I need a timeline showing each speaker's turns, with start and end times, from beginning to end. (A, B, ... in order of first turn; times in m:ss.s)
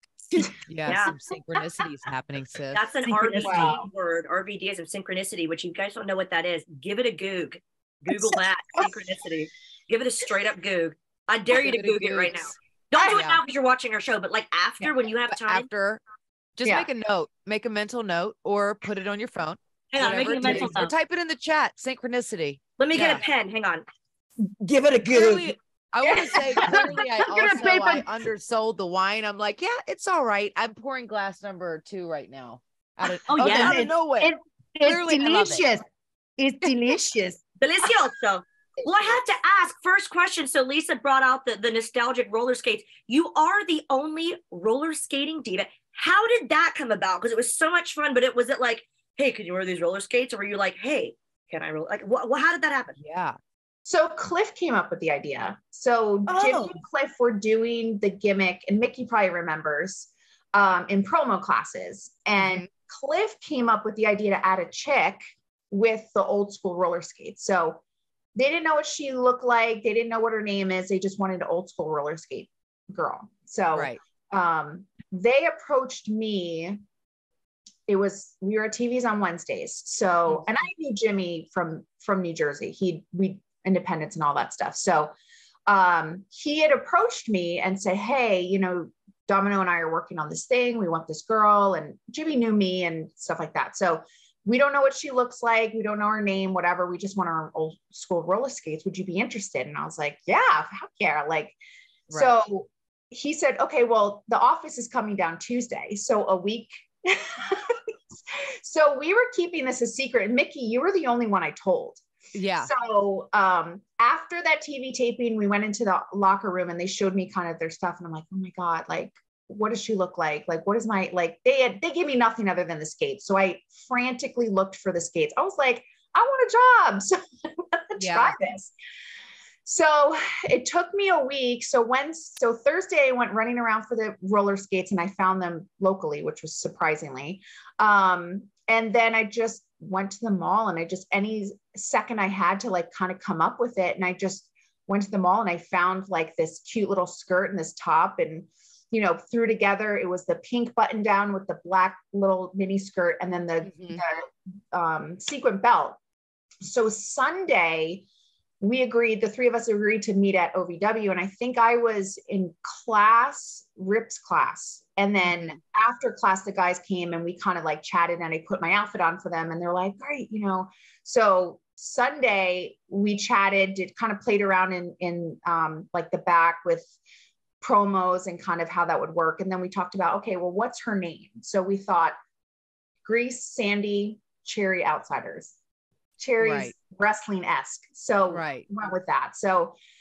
0:00.7-0:02.9 A
0:00.8-0:01.2 B
0:02.7-0:15.7 B
0:03.1-0:03.8 C
0:03.3-0:03.8 D
0:11.5-0:12.5 A
0:13.0-0:13.4 A
0:15.3-0:16.0 A
0:16.6-0:23.2 A
0:19.9-0:20.9 B
0:22.8-0:23.8 B
0:24.4-0:25.6 C
0:25.1-0:35.6 A
0:26.0-0:27.0 D
0:26.6-0:28.0 C
0:33.3-0:33.8 B
0:33.4-0:35.8 C
0:36.4-0:37.4 C
0:37.6-0:53.0 B
0:53.0-0:53.4 A
0:53.8-1:07.8 D
0:56.3-0:56.8 C
1:02.4-1:02.7 A
1:08.3-1:16.8 D
1:17.9-1:25.1 D
1:25.7-1:41.6 D
1:42.1-1:42.4 A
1:42.1-1:47.8 D
1:48.3-1:52.0 D
1:52.3-1:52.7 A
1:52.6-2:08.7 D
2:08.0-2:08.3 A
2:09.6-2:36.0 D
2:33.6-2:34.0 A
2:36.6-2:38.0 D
2:38.6-2:56.9 D
2:45.2-2:45.6 A
2:57.6-3:02.2 D
3:03.0-3:05.5 D
3:06.2-3:09.7 D
3:06.4-3:06.7 A
3:08.3-3:08.7 A